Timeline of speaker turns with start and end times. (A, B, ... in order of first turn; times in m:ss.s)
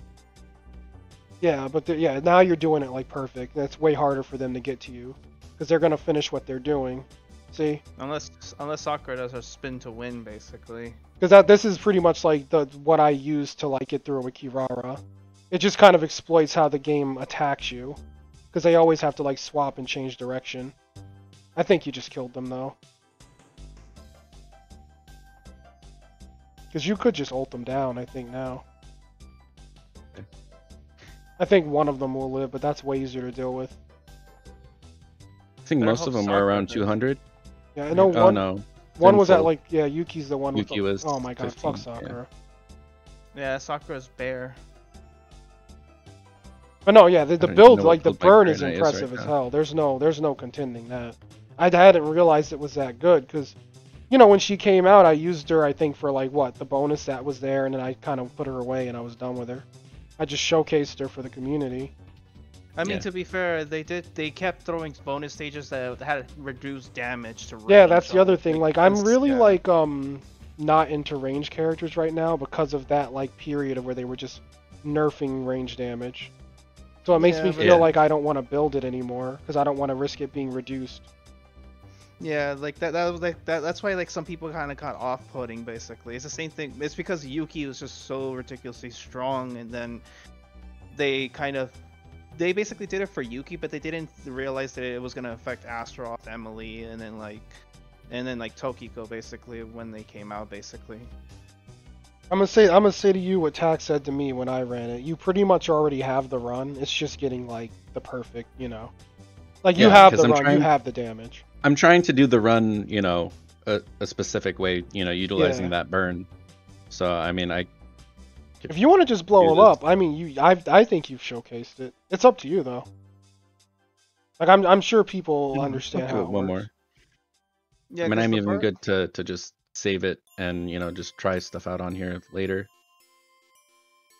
0:01.4-0:07.8 A
0:08.0-0:11.0 B
0:11.2-0:18.0 A
0:18.5-0:20.7 A
0:21.6-0:22.8 A
0:26.7-0:28.6 A
0:31.4-0:33.7 A
0:35.6-0:37.2 C
0:35.8-0:36.9 B
0:37.8-0:38.4 A
0:37.9-0:39.5 C
0:39.0-0:42.3 A
0:40.5-0:42.2 C
0:43.3-0:44.6 B
0:46.8-0:53.6 A
0:47.4-0:49.3 C
0:54.1-0:59.6 A
1:00.2-1:01.9 A
1:02.8-1:09.6 B
1:07.7-1:16.3 A
1:17.0-1:21.1 A
1:17.1-1:17.9 B
1:17.6-1:17.9 C
1:22.2-1:30.0 B
1:30.9-1:31.8 B
1:32.3-1:37.5 B
1:38.1-1:41.1 B
1:42.3-1:48.9 A
1:49.6-1:51.4 A
1:49.8-1:50.7 C
1:51.6-1:56.3 C
1:55.4-1:55.7 A
1:56.9-1:57.7 C
1:58.7-2:02.9 A
1:59.4-1:59.8 C
2:04.4-2:06.6 A
2:05.5-2:06.7 C
2:07.9-2:08.7 B
2:08.0-2:12.7 C